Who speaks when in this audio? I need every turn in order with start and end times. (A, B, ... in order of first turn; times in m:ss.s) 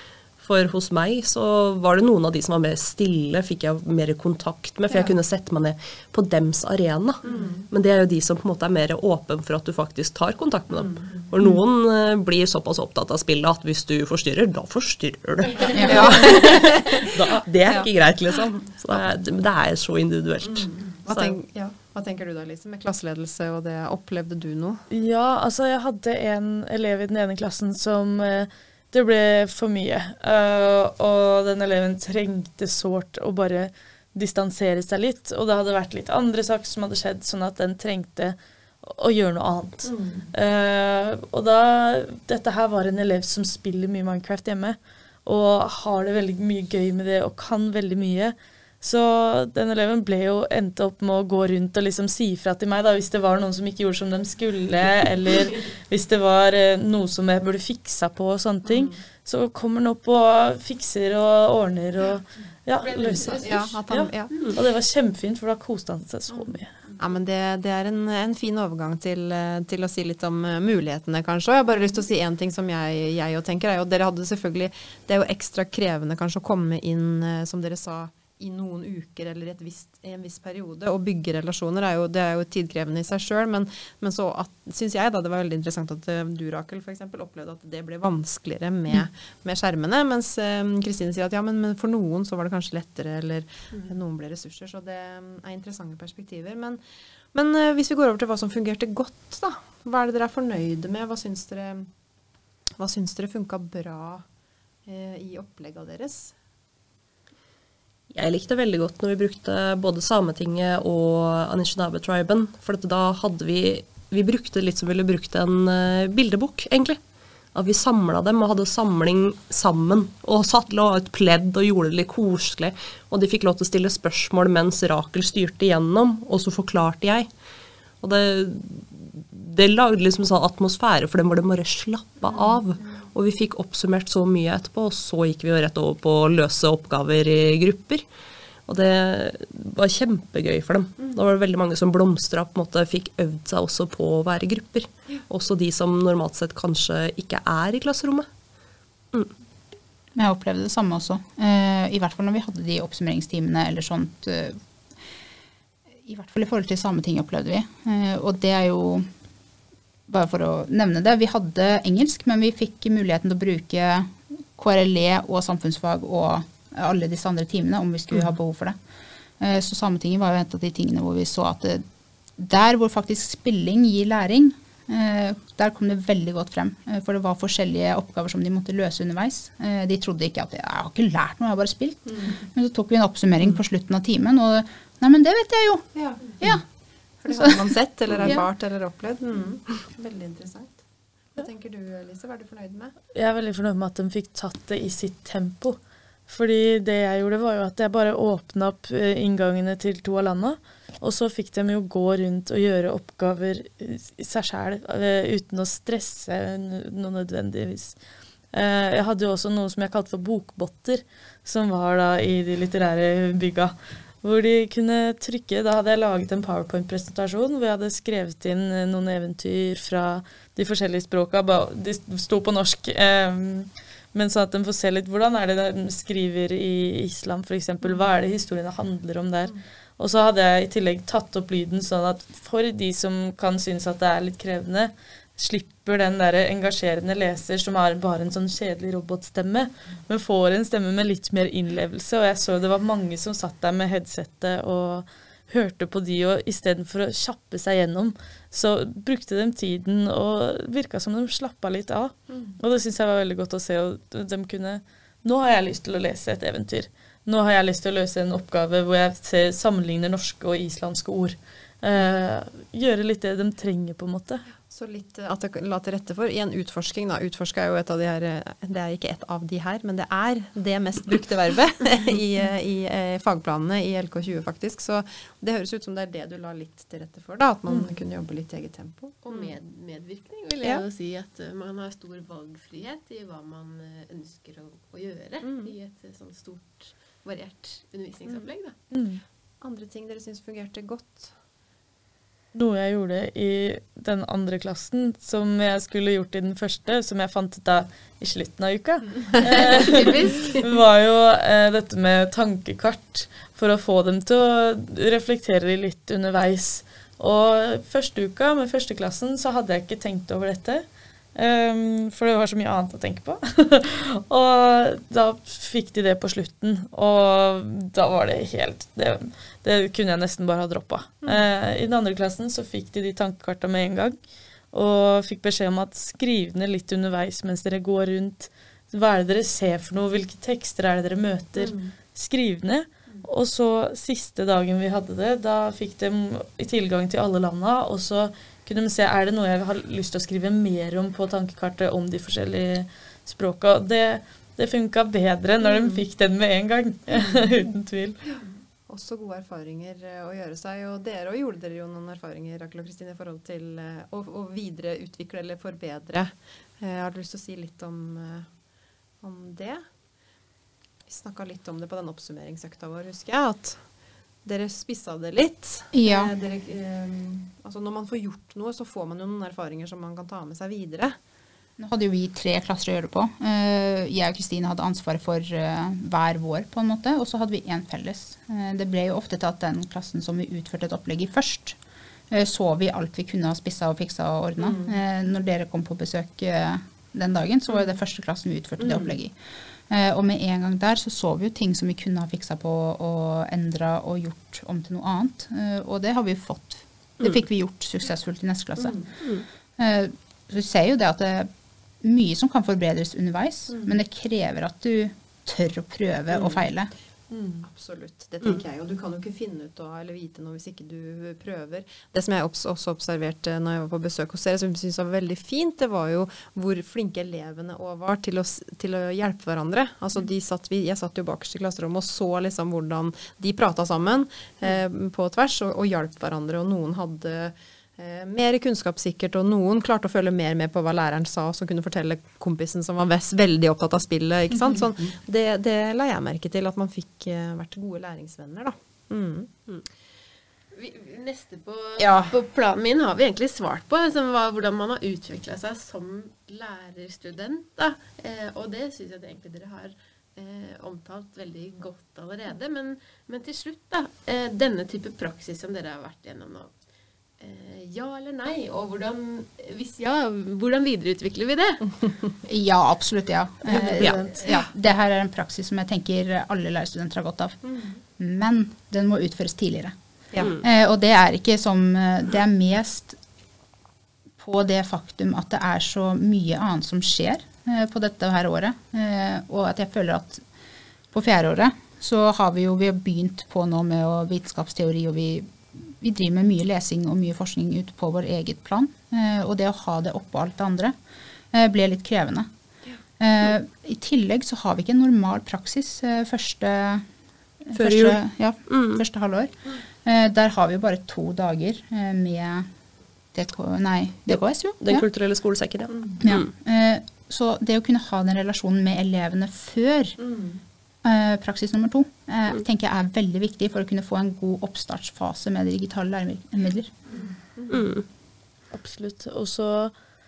0:00.4-0:21.4 A
0:07.2-0:07.6 B
0:10.7-0:11.1 B
0:15.6-0:17.1 B
0:15.7-0:16.2 C
0:20.4-0:24.8 B
0:24.9-1:06.7 D
0:39.8-0:40.3 B
0:58.6-0:59.0 B
1:02.8-1:03.7 E
1:03.4-1:04.3 B
1:04.3-1:04.6 E
1:07.0-1:36.8 B
1:37.3-1:41.9 B
1:42.8-1:44.2 B
1:44.8-1:46.3 B
1:48.1-1:57.0 A
1:57.5-2:07.3 A
2:08.0-2:18.0 A
2:12.2-2:12.6 B
2:18.6-2:28.3 A
2:30.2-2:34.6 C
2:36.0-2:39.1 C
2:40.1-2:48.8 C
2:49.4-2:51.8 C
2:52.4-3:06.6 C
3:05.9-3:06.6 B
3:07.2-3:12.9 B
3:07.3-3:07.6 C
3:13.1-3:28.0 D
3:28.5-4:24.5 D
4:24.7-4:39.5 B
4:39.2-4:48.8 E
4:45.4-4:45.7 B
4:48.9-4:49.2 D
4:49.6-4:51.3 B
4:52.5-5:24.2 D
4:59.4-5:00.6 E
5:24.7-5:48.2 D
5:31.6-5:31.9 B
5:45.6-5:46.0 B
5:47.1-5:47.4 B
5:48.9-5:58.5 B
5:59.2-5:59.8 B
6:01.1-6:03.8 B
6:04.4-6:11.2 B
6:05.9-6:06.3 C
6:11.8-6:21.8 C
6:22.3-6:29.4 C
6:24.6-6:25.0 B
6:28.8-6:29.1 B
6:29.9-6:39.0 C
6:38.8-6:39.1 B
6:39.8-6:41.5 C
6:42.0-6:46.9 C
6:46.3-6:46.6 B
6:47.3-6:47.6 D
6:47.6-7:19.6 B
7:20.7-7:36.7 E
7:22.0-7:22.4 B
7:37.4-7:42.0 E
7:42.5-7:47.6 C
7:43.7-7:44.4 D
7:48.2-7:53.2 C
7:50.3-7:50.6 B
7:54.4-8:00.4 C
8:01.1-8:10.9 C
8:11.5-8:12.5 C
8:13.2-8:17.0 C
8:17.6-8:22.7 C
8:17.7-8:19.0 A
8:23.3-8:25.0 C
8:24.8-8:26.5 A
8:25.9-8:26.2 B
8:26.2-8:30.2 C
8:30.2-8:30.6 B
8:31.0-8:36.9 C
8:37.6-8:37.8 B
8:37.7-8:38.0 A
8:38.7-8:39.9 D